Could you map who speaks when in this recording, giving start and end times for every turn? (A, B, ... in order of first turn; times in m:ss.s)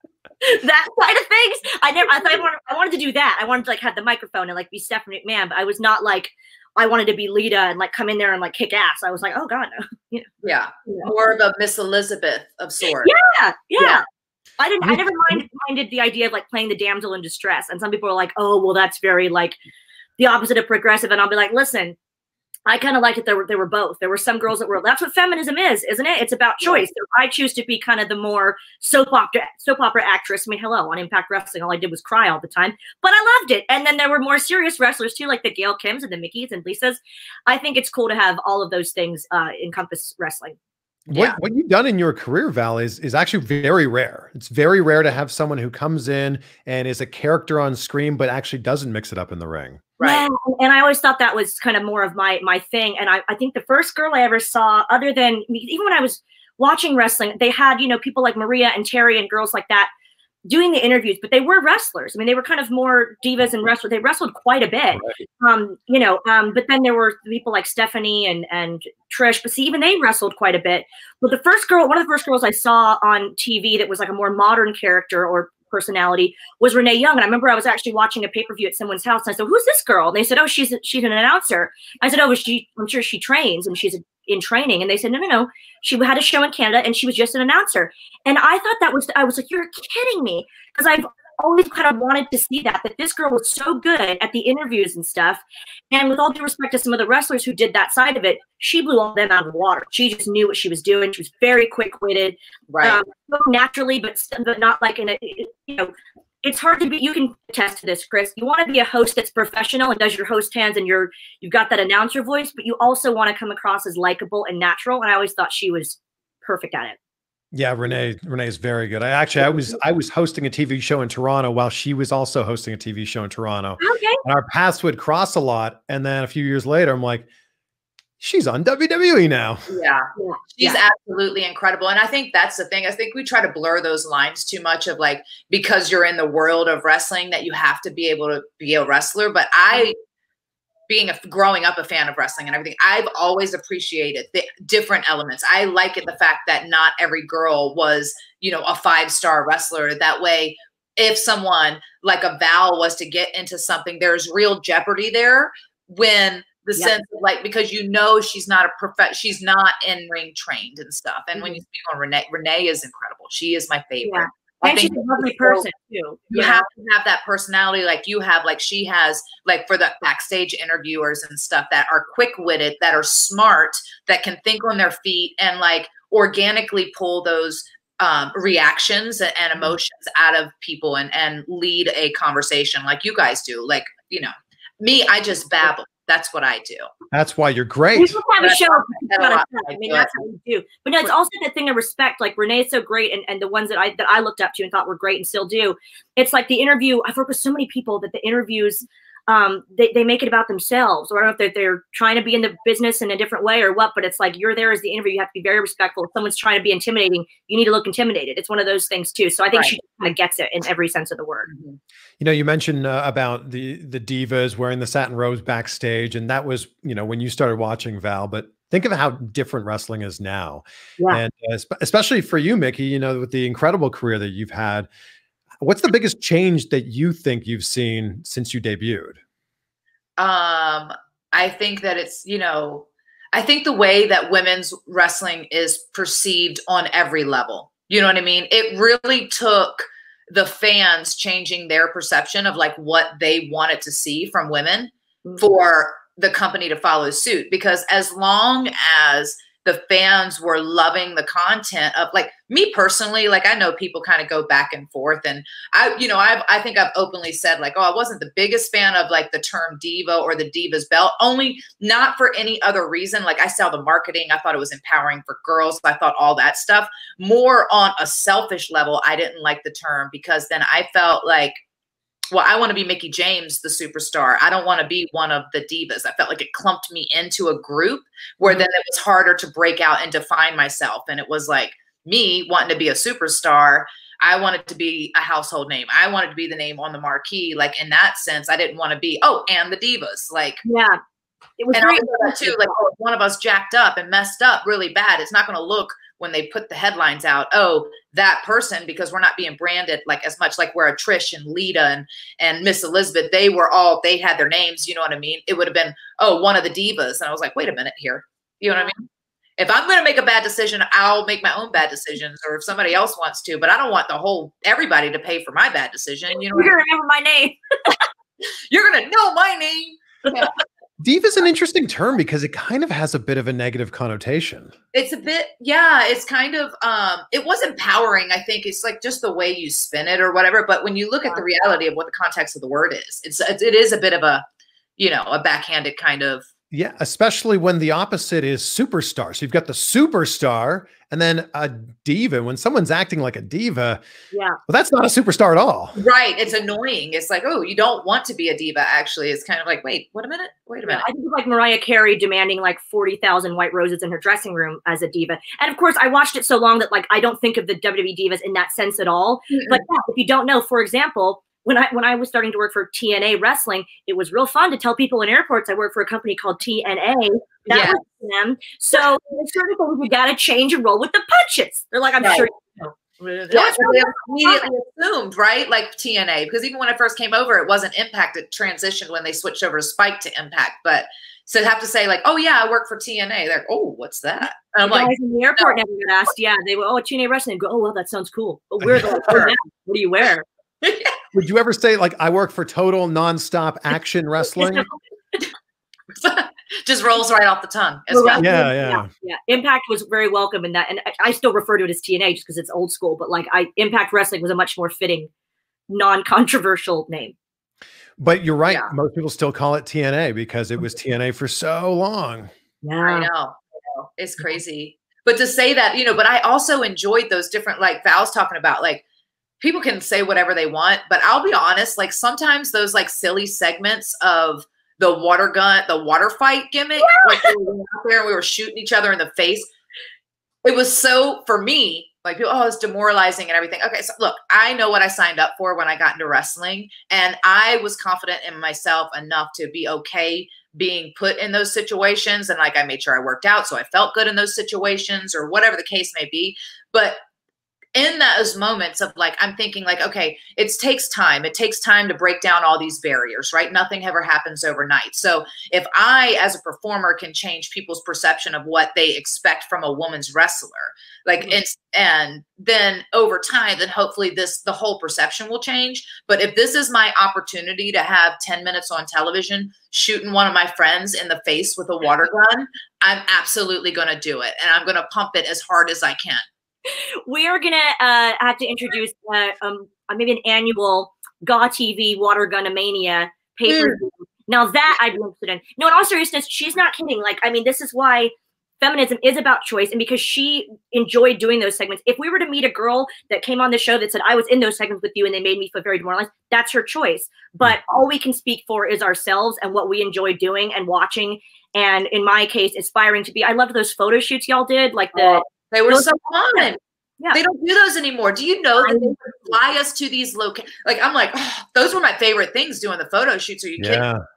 0:00.4-0:10.3 A
0:10.4-0:13.1 B
0:13.0-0:14.0 A
0:13.8-0:14.0 B
0:14.6-0:19.6 A
0:14.8-0:15.4 C
0:20.2-0:22.0 A
0:22.7-0:40.6 A
0:41.1-0:49.9 C
0:41.1-0:41.4 B
0:50.0-0:50.2 B
0:50.0-0:59.9 A
1:00.5-1:45.9 A
1:05.0-1:05.2 C
1:42.7-1:43.0 B
1:46.4-1:57.0 A
1:57.5-2:07.3 C
2:03.8-2:04.2 A
2:08.2-2:09.7 C
2:09.7-2:20.0 B
2:10.2-2:10.8 A
2:20.9-2:45.7 B
2:41.4-2:41.6 A
2:44.0-2:46.7 A
2:46.3-3:06.9 B
3:07.1-3:08.2 C
3:07.9-3:31.5 A
3:08.4-3:10.2 B
3:31.5-3:31.8 B
3:32.2-3:44.9 C
3:45.6-3:49.2 C
3:50.2-4:31.6 B
4:32.3-4:50.6 B
4:50.6-4:51.0 A
4:51.6-4:52.7 A
4:51.7-5:16.8 B
5:16.5-5:18.0 A
5:18.7-5:20.6 B
5:21.0-5:24.7 C
5:24.9-5:34.4 B
5:35.0-5:36.4 B
5:36.7-5:44.0 C
5:44.3-5:44.6 A
5:44.7-5:46.0 C
5:46.0-5:51.1 B
5:50.9-6:14.7 A
5:59.5-5:59.8 B
6:07.7-6:08.0 B
6:12.2-6:12.5 B
6:13.5-6:25.8 B
6:24.8-6:30.4 A
6:28.8-6:29.1 C
6:29.0-6:29.6 B
6:30.8-6:31.2 B
6:31.3-6:34.9 C
6:34.6-6:34.9 A
6:36.2-6:38.5 B
6:38.1-6:45.3 A
6:38.4-6:39.1 C
6:45.9-6:47.4 A
6:48.2-6:52.5 C
6:52.8-6:53.3 A
6:53.0-6:59.0 B
6:59.6-7:09.7 B
7:07.0-7:07.5 A
7:10.6-7:27.2 B
7:28.0-7:56.5 B
7:57.2-8:26.7 A
8:03.7-8:04.0 B
8:25.1-8:26.8 B
8:27.3-8:34.0 B
8:28.8-8:29.2 A
8:33.8-8:34.2 C